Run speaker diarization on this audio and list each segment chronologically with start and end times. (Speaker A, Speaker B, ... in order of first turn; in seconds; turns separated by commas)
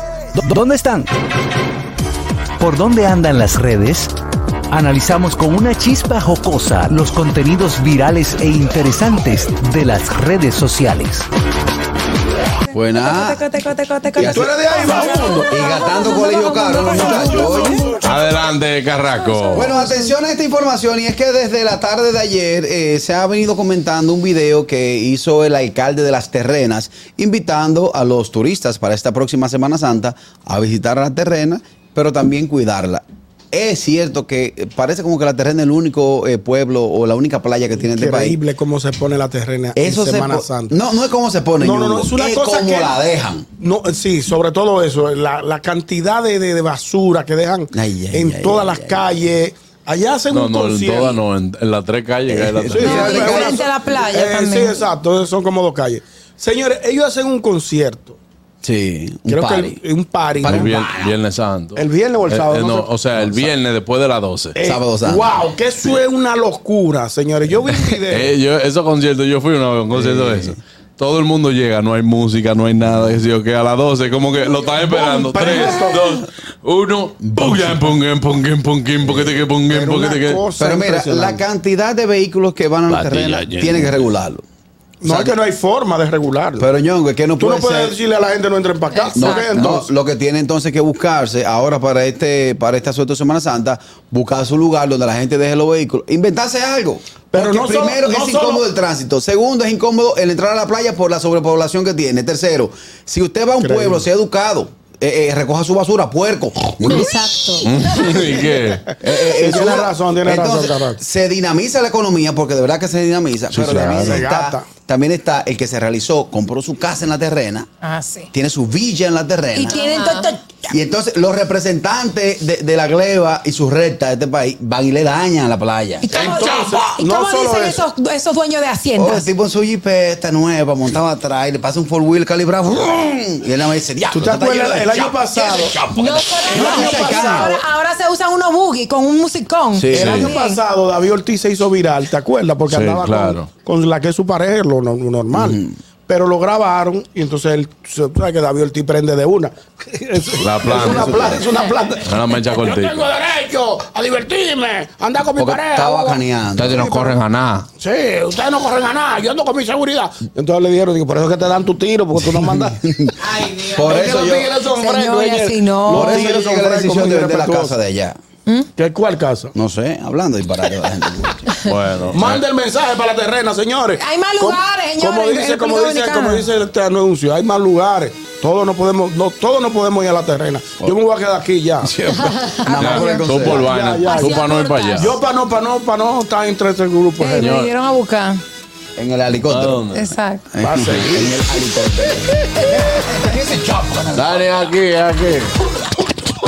Speaker A: 0.3-1.1, Speaker A: 2.6-4.1, Speaker A: 4.7-11.2, Speaker B: 12.7-13.4, Speaker C: 12.8-18.1, Speaker B: 14.2-14.5, Speaker D: 14.2-15.7, Speaker B: 15.4-17.9, Speaker D: 16.8-18.0, Speaker E: 18.0-19.7, Speaker C: 19.3-20.1, Speaker B: 19.5-38.4, Speaker D: 37.8-40.7, Speaker B: 39.8-43.5, Speaker D: 41.6-43.0, Speaker D: 43.6-51.2, Speaker B: 47.7-49.2, Speaker E: 50.3-53.0, Speaker B: 52.3-53.6, Speaker D: 52.7-58.2, Speaker C: 52.8-54.8, Speaker B: 58.6-59.8, Speaker D: 59.3-61.1, Speaker B: 60.4-60.7, Speaker E: 60.4-64.5, Speaker D: 61.8-63.6, Speaker D: 64.5-68.4, Speaker B: 64.6-65.4, Speaker E: 68.0-80.5, Speaker B: 69.9-70.6, Speaker D: 74.7-76.2, Speaker B: 75.5-76.1, Speaker B: 77.2-78.0, Speaker B: 79.0-79.8, Speaker D: 79.7-81.4, Speaker B: 80.5-84.4, Speaker E: 82.9-83.9, Speaker D: 85.0-86.7, Speaker B: 85.0-85.3, Speaker B: 86.6-88.0, Speaker D: 87.4-89.9, Speaker C: 88.9-89.5, Speaker B: 89.1-107.2, Speaker D: 97.3-98.7, Speaker D: 103.6-104.0, Speaker C: 106.8-108.2, Speaker E: 107.6-108.9, Speaker B: 109.0-117.7, Speaker D: 109.1-111.0, Speaker E: 113.5-114.2, Speaker D: 113.8-114.7, Speaker C: 117.8-118.3, Speaker B: 118.3-119.9, Speaker C: 119.5-120.6, Speaker B: 120.7-126.1, Speaker C: 126.0-129.3, Speaker D: 126.1-127.9, Speaker B: 128.9-137.6, Speaker D: 134.1-137.6, Speaker C: 135.9-140.6, Speaker B: 139.7-140.3, Speaker D: 139.9-156.2, Speaker E: 139.9-140.3, Speaker E: 142.7-143.5, Speaker B: 145.3-145.7, Speaker E: 150.4-151.3, Speaker B: 150.7-151.4, Speaker E: 152.0-153.1, Speaker B: 155.4-157.1, Speaker E: 156.6-157.7, Speaker D: 157.8-162.8, Speaker B: 162.2-164.5, Speaker D: 163.3-167.8, Speaker C: 164.6-166.3, Speaker B: 165.9-168.2, Speaker D: 168.8-169.5, Speaker B: 169.5-171.5, Speaker E: 171.6-172.4, Speaker D: 172.1-181.9, Speaker C: 174.0-176.5, Speaker B: 181.9-183.7, Speaker C: 182.1-183.3, Speaker E: 182.7-185.2, Speaker D: 183.3-187.6, Speaker C: 184.0-185.2, Speaker C: 187.2-188.4, Speaker E: 187.3-187.7, Speaker B: 188.9-189.8, Speaker E: 189.5-190.1, Speaker C: 189.9-190.5, Speaker B: 190.5-194.4, Speaker D: 190.6-191.4, Speaker E: 194.1-195.5